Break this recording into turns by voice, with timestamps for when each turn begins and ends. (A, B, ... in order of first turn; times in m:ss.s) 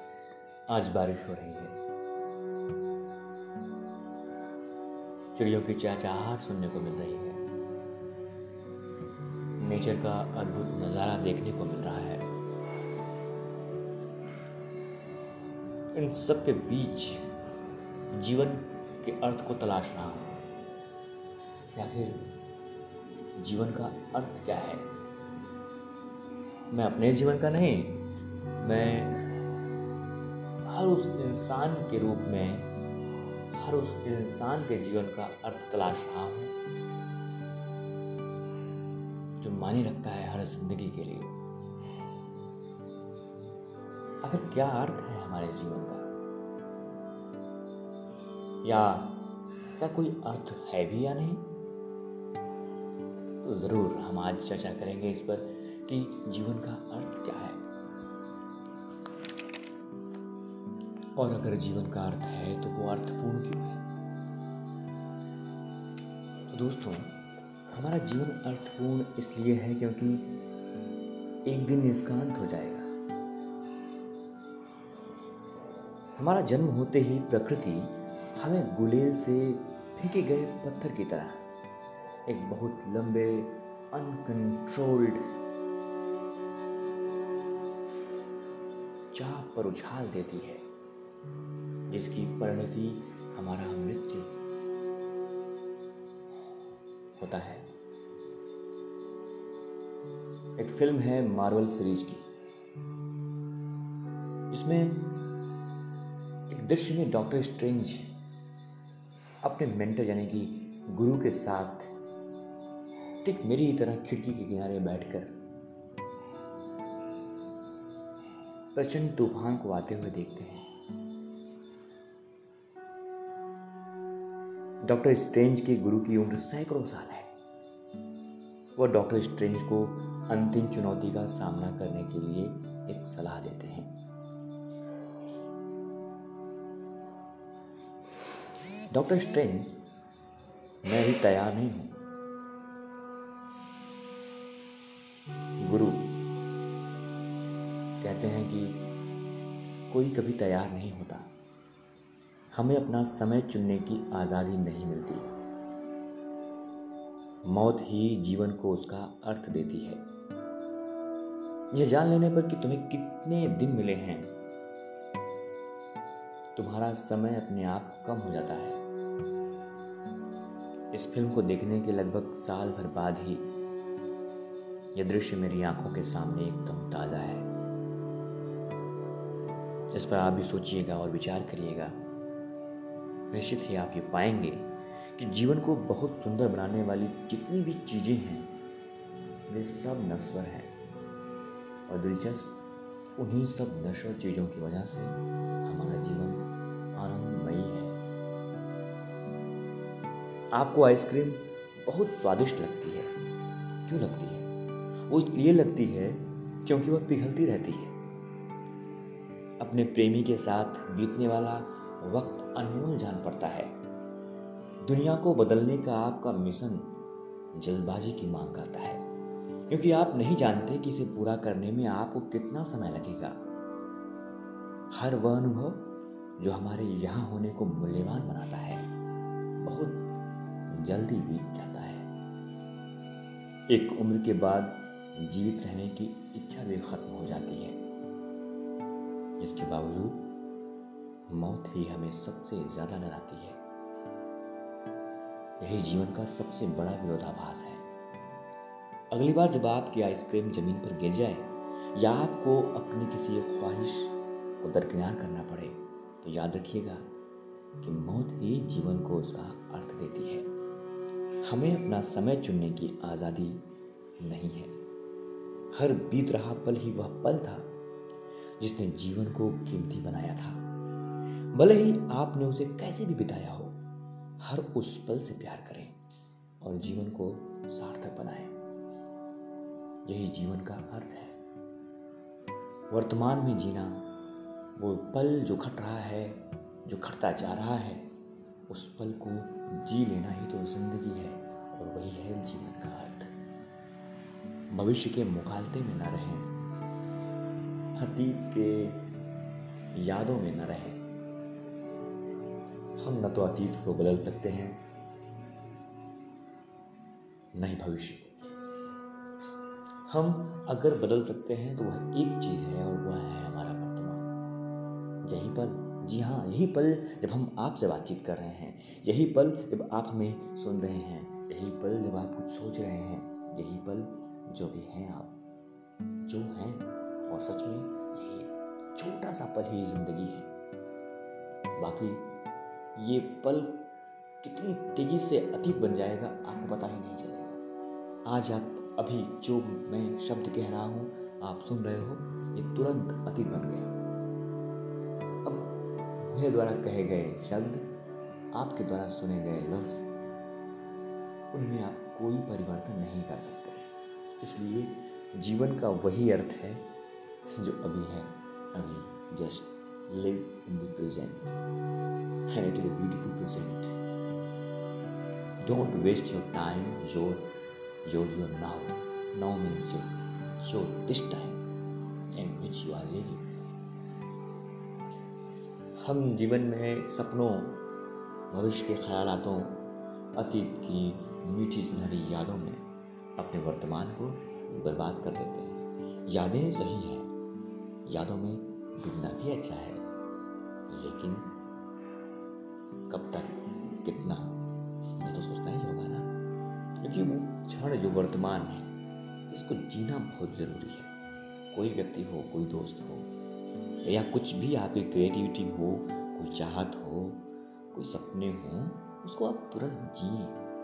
0:00.7-0:01.8 A
0:05.4-0:07.4 A
0:09.6-0:12.3 A
0:15.9-0:17.2 A
0:18.1-0:20.4 A
0:21.8-0:22.2 A
0:23.4-0:24.9 A
0:26.7-0:28.1 A
0:28.6-0:29.4 A
0:30.6-0:32.7 A
0:33.5-0:36.5 A
0:39.4-0:41.4 A
0:44.2-0:46.1 A
0:48.6-0:49.2 A
0:49.8-0:51.5 A
0:53.4-0:57.6 A
1:01.2-1:03.8 A
1:06.5-1:07.2 A
1:07.7-1:10.4 A
1:11.4-1:12.9 A
1:16.2-1:21.4 A
1:22.3-1:25.3 A
1:29.1-1:30.6 A
1:31.9-1:34.4 A
1:37.2-1:37.7 A
1:40.6-1:42.2 A
1:44.5-1:45.2 A
1:46.5-1:48.1 A
1:49.4-1:51.9 A
1:53.2-1:55.3 A
1:58.7-2:00.7 A
2:04.8-2:07.3 A
2:08.8-2:13.9 A
2:18.9-2:19.8 A
2:20.8-2:22.0 A
2:25.6-2:26.2 A
2:28.0-2:28.9 A
2:29.9-2:31.3 A
2:32.5-2:35.3 A
2:37.4-2:40.0 A
2:41.7-2:44.4 A
2:46.6-2:48.8 A
2:50.9-2:53.5 A
2:55.0-2:57.5 A
2:59.9-3:02.0 A
3:03.3-3:08.5 A
3:09.5-3:10.7 A
3:11.9-3:12.6 A
3:13.2-3:18.0 A
3:20.5-3:23.1 A
3:23.8-3:24.5 A
3:25.1-3:28.0 A
3:29.6-3:33.8 A
3:34.8-3:37.0 A
3:37.5-3:39.0 A
3:39.7-3:43.4 A
3:44.9-3:48.9 A
3:49.6-3:50.1 A
3:50.7-3:52.1 A
3:53.7-3:57.8 A
3:59.4-4:00.3 A
4:01.3-4:03.6 A
4:05.6-4:07.8 A
4:09.1-4:17.1 A
4:17.8-4:20.5 A
4:21.4-4:23.7 A
4:24.2-4:24.8 A
4:25.7-4:27.7 A
4:28.6-4:30.6 A
4:31.5-4:33.8 A
4:34.4-4:36.0 A
4:36.6-4:38.6 A
4:40.0-4:41.4 A
4:42.9-4:44.1 A
4:44.8-4:48.1 A
4:48.7-4:53.3 A
4:54.7-4:56.5 A
4:58.0-4:59.1 A
5:00.0-5:01.0 A
5:03.0-5:04.8 A
5:07.6-5:08.4 A
5:10.1-5:14.3 A
5:15.2-5:25.4 A
5:26.2-5:30.5 A
5:31.8-5:32.3 A
5:33.0-5:33.9 A
5:34.4-5:37.6 A
5:38.3-5:43.9 A
5:45.4-5:47.9 A
5:48.5-5:50.1 A
5:51.5-5:53.9 A
5:54.4-5:56.9 A
5:57.5-6:01.6 A
6:02.5-6:03.9 A
6:05.6-6:07.5 A
6:08.0-6:11.6 A
6:12.3-6:13.5 A
6:16.0-6:17.8 A
6:18.5-6:22.8 A
6:23.4-6:27.3 A
6:28.1-6:30.0 A
6:30.9-6:31.6 A
6:33.1-6:34.6 A
6:35.1-6:36.3 A
6:37.0-6:38.9 A
6:39.5-6:41.1 A
6:41.7-6:43.3 A
6:44.0-6:50.6 A